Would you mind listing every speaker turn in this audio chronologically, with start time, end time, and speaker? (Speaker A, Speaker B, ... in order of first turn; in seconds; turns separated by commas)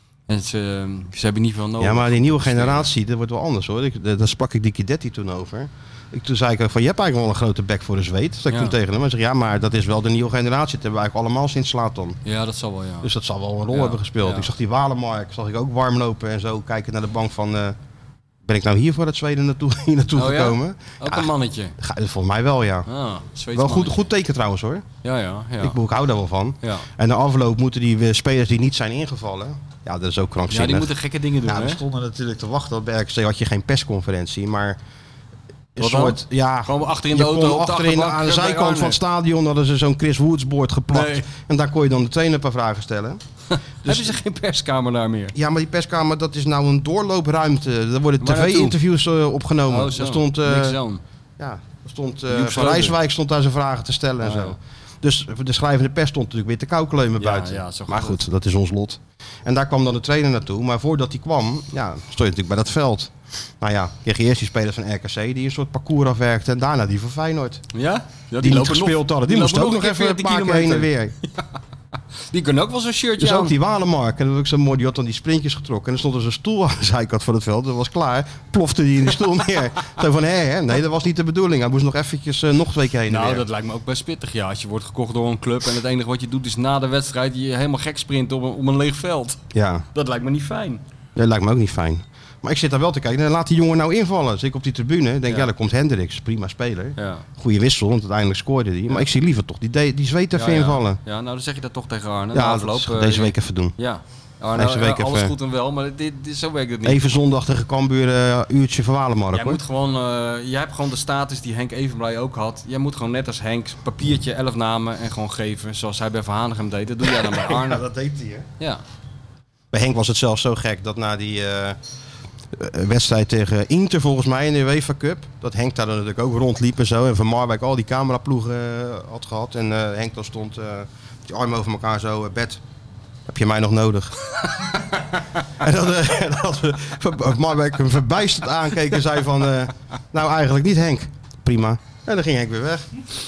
Speaker A: 0.3-2.9, Speaker B: 1.8-12.2, Speaker A: 8.5-8.7, Speaker A: 12.2-13.1, Speaker B: 13.0-17.8, Speaker A: 13.7-14.5, Speaker B: 18.4-22.9, Speaker A: 20.1-21.7, Speaker A: 22.9-24.0, Speaker B: 23.5-24.9, Speaker A: 25.0-25.8, Speaker B: 25.6-30.9, Speaker A: 26.6-26.9, Speaker A: 30.5-31.8, Speaker B: 31.4-34.8, Speaker B: 35.7-43.2, Speaker A: 35.8-39.0, Speaker A: 40.9-41.3, Speaker A: 43.5-45.3, Speaker B: 43.8-44.2, Speaker B: 45.3-50.8, Speaker A: 48.2-48.8, Speaker A: 49.7-51.0, Speaker B: 51.4-67.6, Speaker A: 52.3-53.0, Speaker A: 54.2-54.5, Speaker A: 57.2-58.2, Speaker A: 67.7-71.4, Speaker B: 68.4-71.1, Speaker A: 72.3-73.5, Speaker B: 73.2-83.4, Speaker A: 83.1-89.4, Speaker B: 89.5-89.8, Speaker A: 89.9-90.8, Speaker B: 91.1-101.0, Speaker A: 97.0-97.2, Speaker A: 100.3-107.0, Speaker B: 102.3-103.7, Speaker B: 104.5-105.3, Speaker B: 106.8-109.6, Speaker A: 109.3-117.8, Speaker B: 117.0-118.5, Speaker B: 119.7-121.8, Speaker B: 122.5-132.6, Speaker B: 133.3-134.2, Speaker B: 135.6-142.9